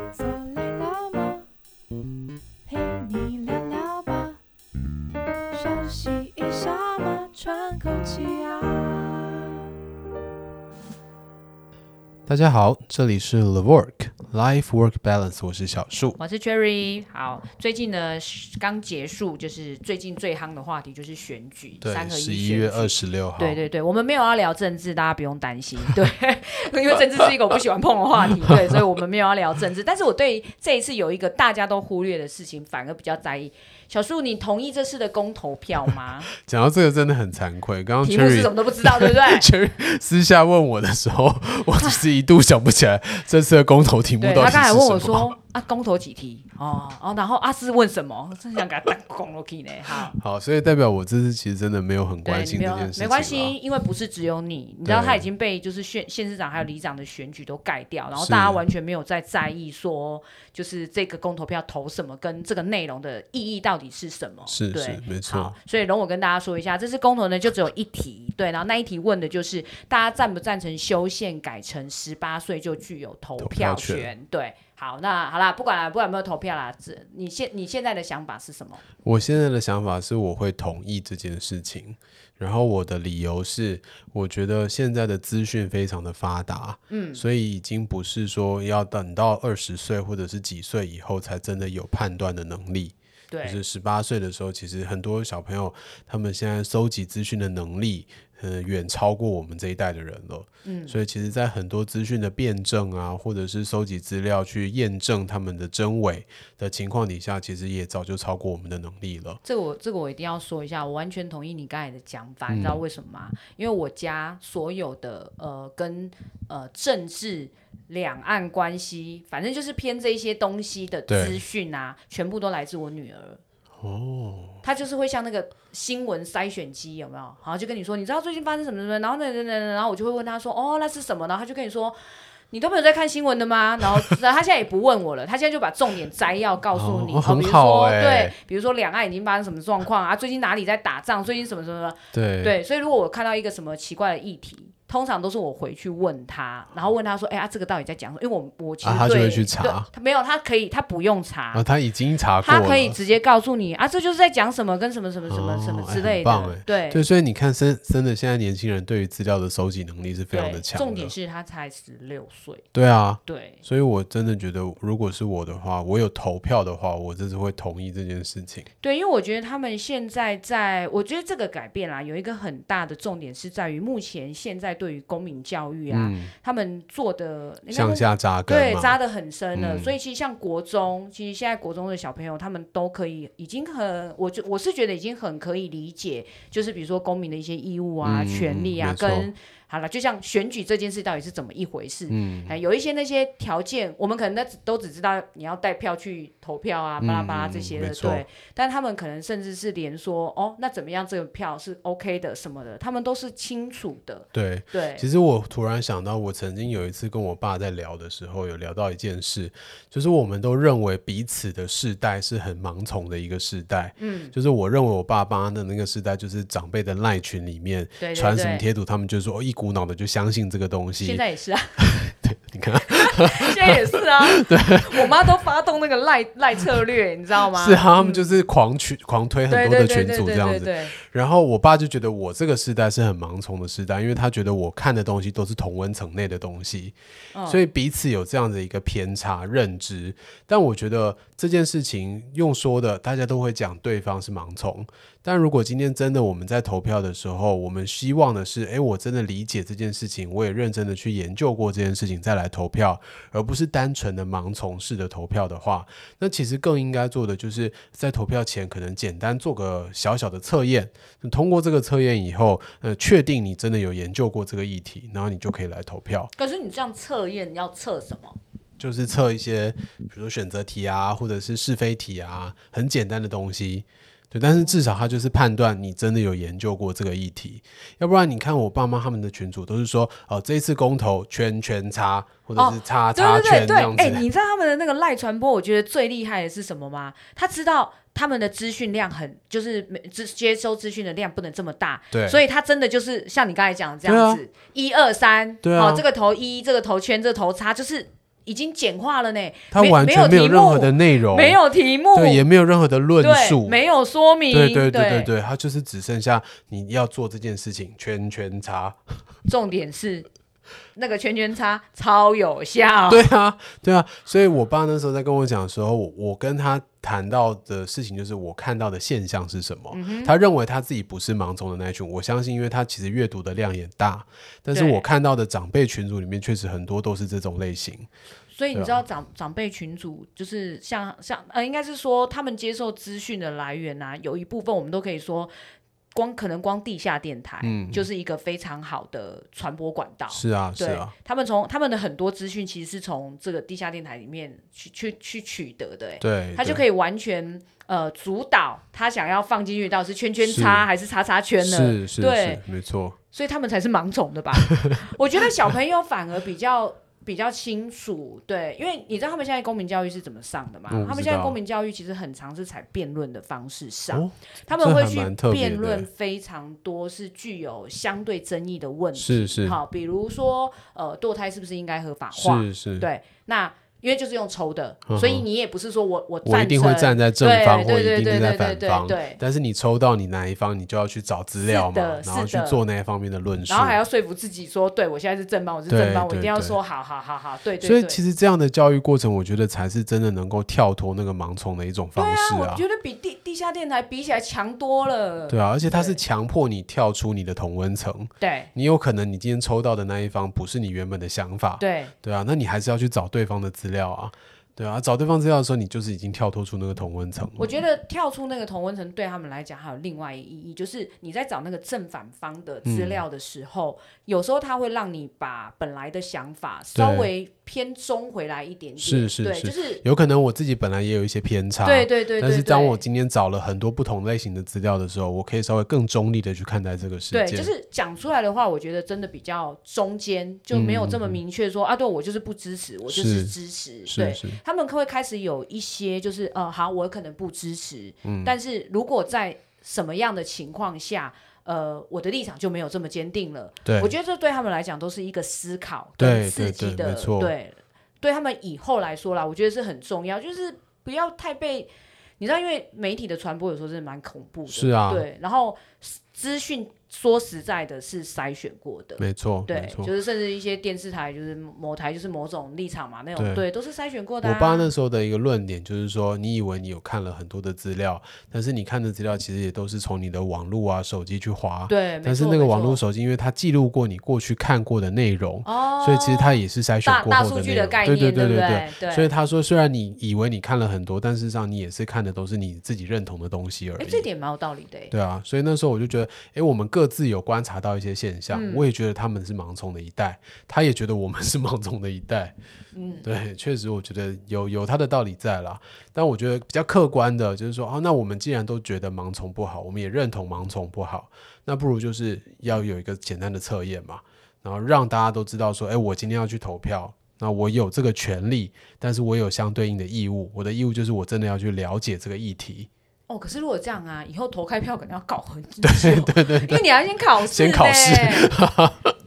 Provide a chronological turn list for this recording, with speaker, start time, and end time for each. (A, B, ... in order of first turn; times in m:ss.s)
0:00.2-0:01.4 A
0:02.7-0:04.4 A
0:02.8-0:03.4 B
0:05.5-0:09.5 A
0:12.3-0:16.2 C
0:16.2-0:36.3 B
0:21.8-0:23.6 C
0:36.4-0:45.4 C
0:38.0-0:39.5 B
0:44.2-0:50.2 B
0:50.1-0:53.5 C
0:52.2-1:18.8 B
0:54.8-0:55.3 C
0:58.1-0:58.6 C
1:04.5-1:05.5 C
1:13.4-1:14.1 C
1:19.0-1:49.4 C
1:26.9-1:27.2 B
1:33.3-1:33.6 B
1:40.6-1:41.0 B
1:49.4-2:03.4 B
1:52.5-1:52.8 C
2:01.1-2:01.4 C
2:03.8-2:04.6 C
2:04.6-2:12.0 B
2:12.5-2:31.6 B
2:16.7-2:18.3 C
2:22.1-2:22.6 C
2:28.8-2:29.9 C
2:31.5-2:33.0 C
2:32.4-2:37.0 B
2:35.3-2:41.1 C
2:40.3-2:42.6 B
2:42.7-2:48.7 C
2:43.2-2:43.6 B
2:48.8-3:25.1 B
2:55.9-2:56.3 C
2:57.7-2:59.0 C
2:59.5-3:00.0 C
3:08.0-3:09.3 C
3:12.1-3:12.6 C
3:17.0-3:18.2 C
3:24.3-3:41.2 C
3:34.0-3:34.3 B
3:38.0-3:38.6 B
3:41.0-3:41.9 B
3:41.8-3:45.1 C
3:42.9-3:48.3 B
3:47.5-4:26.3 C
3:49.5-3:51.0 B
3:57.3-3:57.6 B
4:26.4-4:28.4 B
4:28.8-4:44.2 C
4:42.6-5:02.4 B
4:52.1-4:52.4 C
4:54.0-4:54.4 C
4:55.6-4:56.0 C
4:59.7-5:01.6 C
5:02.1-5:03.8 C
5:03.2-5:05.3 B
5:04.5-5:09.0 C
5:09.4-5:10.3 B
5:10.9-5:13.3 B
5:13.1-5:28.1 C
5:19.9-5:20.3 B
5:24.7-5:25.0 B
5:28.5-5:35.5 B
5:28.7-5:29.0 C
5:36.1-5:52.6 B
5:37.6-5:38.0 C
5:40.3-5:41.1 C
5:46.2-5:46.8 C
5:50.4-5:50.9 C
5:51.6-5:53.2 C
5:53.3-6:19.4 B
5:54.5-5:54.8 C
6:00.9-6:01.6 C
6:04.1-6:06.1 C
6:09.2-6:09.8 C
6:12.3-6:13.1 C
6:15.1-6:15.4 C
6:16.4-6:24.0 C
6:21.6-6:22.8 B
6:23.7-6:28.2 B
6:25.9-6:26.8 C
6:27.8-6:32.8 C
6:32.2-6:36.2 B
6:35.5-6:47.8 C
6:38.4-6:38.7 B
6:41.8-6:42.1 B
6:47.6-7:00.0 B
6:52.8-6:53.2 C
6:56.9-6:57.3 C
6:59.0-7:07.7 C
7:01.8-7:03.0 B
7:07.3-7:44.9 B
7:10.7-7:11.4 C
7:13.1-7:13.5 C
7:14.1-7:14.6 C
7:18.2-7:18.6 C
7:23.8-7:24.1 C
7:26.2-7:27.5 C
7:34.7-7:35.2 C
7:39.2-7:40.1 C
7:43.4-7:43.6 C
7:44.4-8:04.2 C
7:51.9-7:53.0 B
7:55.6-7:59.3 B
8:04.0-8:05.1 B
8:05.1-8:12.5 C
8:08.5-8:08.9 B
8:12.9-8:13.3 B
8:13.2-8:32.9 C
8:33.3-8:38.5 B
8:35.8-8:36.8 C
8:37.5-8:39.1 C